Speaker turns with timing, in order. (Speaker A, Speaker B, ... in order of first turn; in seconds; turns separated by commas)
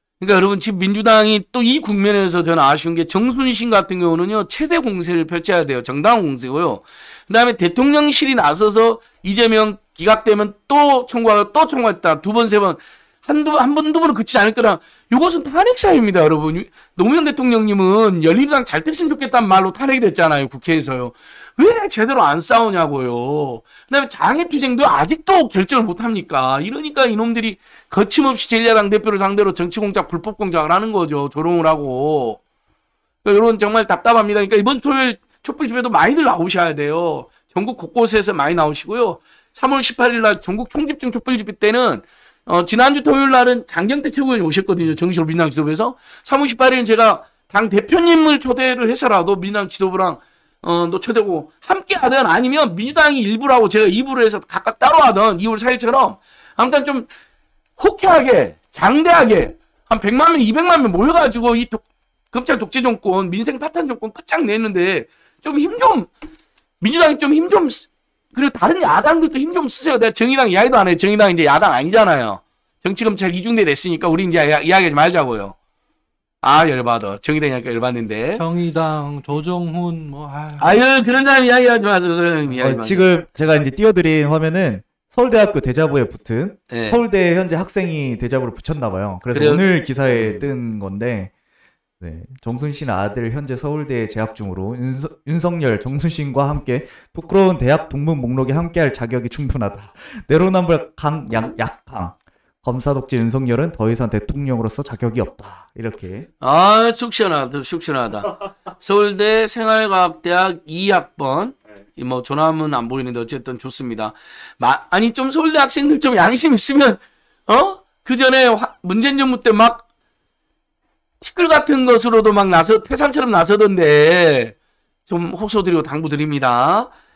Speaker A: 0.2-32.4, Speaker A: 33.2-57.1, Speaker A: 57.8-66.1, Speaker A: 66.8-75.6, Speaker A: 76.4-78.4, Speaker B: 78.3-80.8, Speaker A: 80.6-83.1, Speaker C: 82.5-91.3, Speaker A: 86.7-87.0, Speaker A: 89.3-90.5, Speaker C: 92.0-106.3, Speaker A: 106.4-119.8, Speaker A: 121.2-124.5, Speaker A: 125.1-126.9